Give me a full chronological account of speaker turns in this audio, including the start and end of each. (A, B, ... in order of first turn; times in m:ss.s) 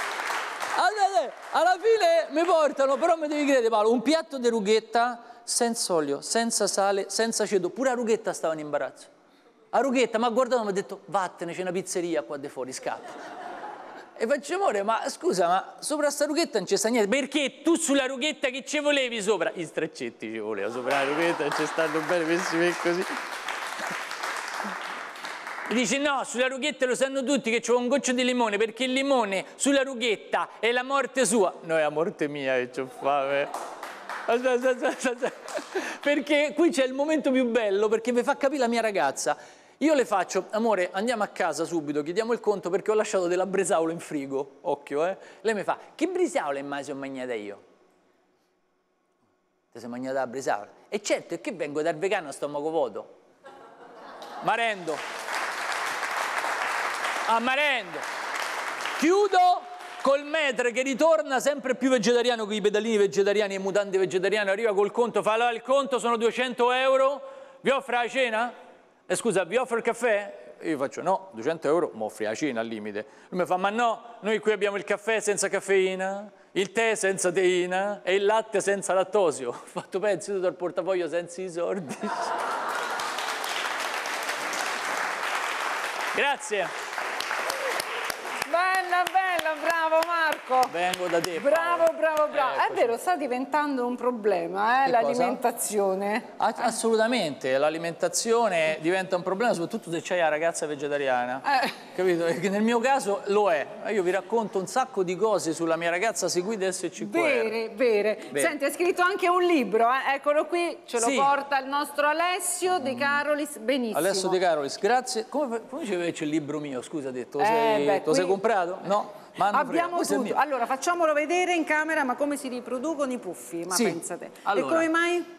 0:00.7-0:09.1 A
0:09.7-0:13.1 A
0:14.2-0:23.1 A
0:25.7-0:33.5 A
0:34.3-0:47.6 A
0:49.7-0:53.1 A
0:54.4-0:55.0 A
0:57.3-0:58.0 A
0:59.0-1:08.5 A
1:09.1-1:22.4 A
1:26.1-1:26.7 A
1:28.4-1:30.7 B
1:30.7-1:33.0 A
1:31.4-1:36.3 B
1:34.8-1:35.4 A
1:36.4-1:47.6 A
1:47.0-1:54.4 B
1:51.0-1:51.3 A
1:53.9-2:00.4 A
1:57.4-1:58.4 B
1:59.5-2:05.3 B
2:03.7-2:04.9 A